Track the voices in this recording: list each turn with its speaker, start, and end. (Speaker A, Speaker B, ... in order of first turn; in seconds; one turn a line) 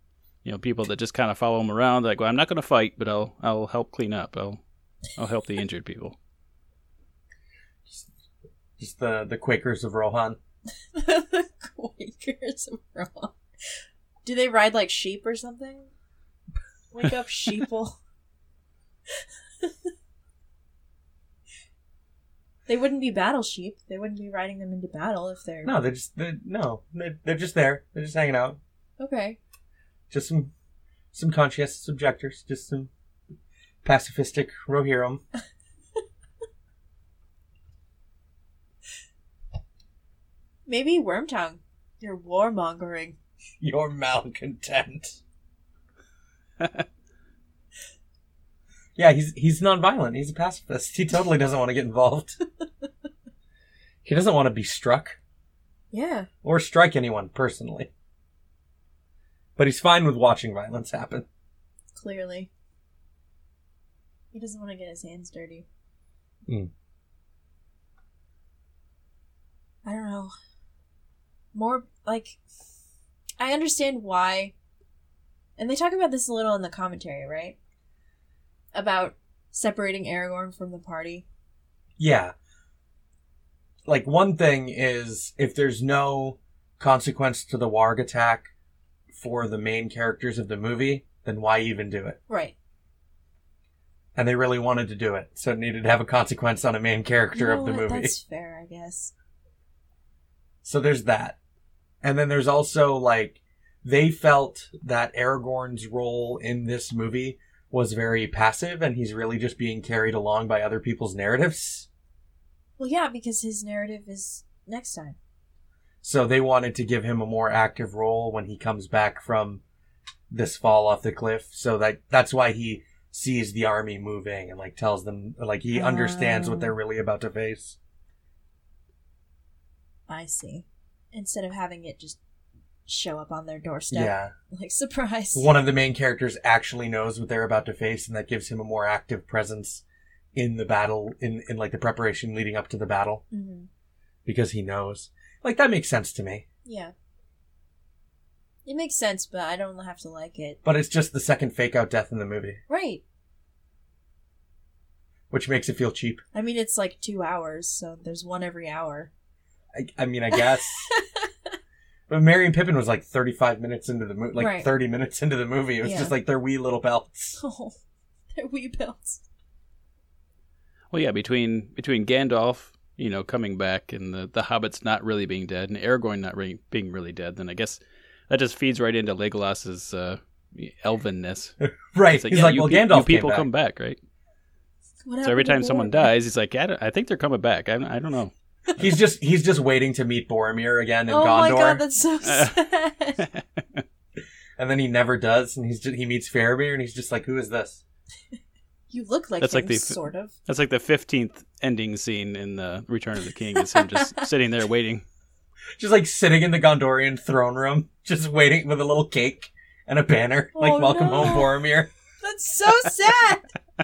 Speaker A: 0.4-4.6
Speaker A: 5.1-6.2
Speaker B: 8.8-10.4
Speaker C: 10.9-15.9
Speaker C: 16.9-18.0
Speaker C: 19.2-19.9
Speaker C: 22.7-25.7
Speaker B: 25.6-28.6
Speaker C: 29.0-29.4
Speaker B: 30.1-30.5
Speaker B: 31.1-32.9
Speaker B: 33.8-35.2
Speaker C: 40.7-43.2
Speaker B: 43.6-45.2
Speaker A: 46.6-46.8
Speaker B: 49.0-52.4
Speaker B: 54.0-55.2
Speaker C: 55.9-56.3
Speaker B: 56.4-57.9
Speaker B: 59.6-61.2
Speaker C: 61.9-62.5
Speaker C: 64.3-65.7
Speaker C: 69.8-70.3
Speaker C: 71.5-72.4
Speaker C: 73.4-74.5
Speaker C: 75.6-77.5
Speaker C: 78.7-81.2
Speaker B: 82.0-82.3
Speaker B: 83.8-88.5
Speaker B: 89.1-92.2
Speaker C: 92.3-92.5
Speaker B: 94.2-98.1
Speaker C: 97.3-99.1
Speaker B: 100.6-101.3
Speaker B: 102.0-111.9
Speaker C: 112.8-115.2
Speaker B: 116.0-119.6
Speaker B: 120.3-127.8
Speaker C: 125.7-126.7
Speaker C: 130.1-132.2
Speaker C: 132.8-135.5
Speaker B: 133.9-134.3
Speaker B: 135.3-143.2
Speaker C: 143.3-143.7
Speaker B: 144.2-146.4
Speaker C: 146.6-146.9
Speaker C: 148.6-150.6
Speaker B: 150.6-152.6
Speaker C: 152.7-153.0
Speaker B: 155.3-156.2
Speaker C: 156.3-159.1
Speaker B: 159.7-160.9
Speaker C: 160.9-161.3
Speaker B: 162.1-167.4
Speaker C: 164.4-164.7
Speaker C: 165.8-166.1
Speaker C: 167.4-167.8
Speaker C: 168.3-169.2
Speaker A: 170.9-181.6
Speaker B: 181.6-183.5
Speaker A: 182.1-184.0
Speaker C: 185.0-186.1
Speaker A: 185.2-188.3
Speaker B: 188.8-191.8
Speaker C: 191.1-193.2
Speaker A: 192.2-192.5
Speaker A: 193.2-193.8
Speaker B: 194.6-197.8
Speaker C: 198.9-200.3
Speaker A: 199.4-205.0
Speaker C: 203.5-204.3
Speaker B: 205.8-211.9
Speaker C: 210.5-211.6
Speaker C: 212.2-213.5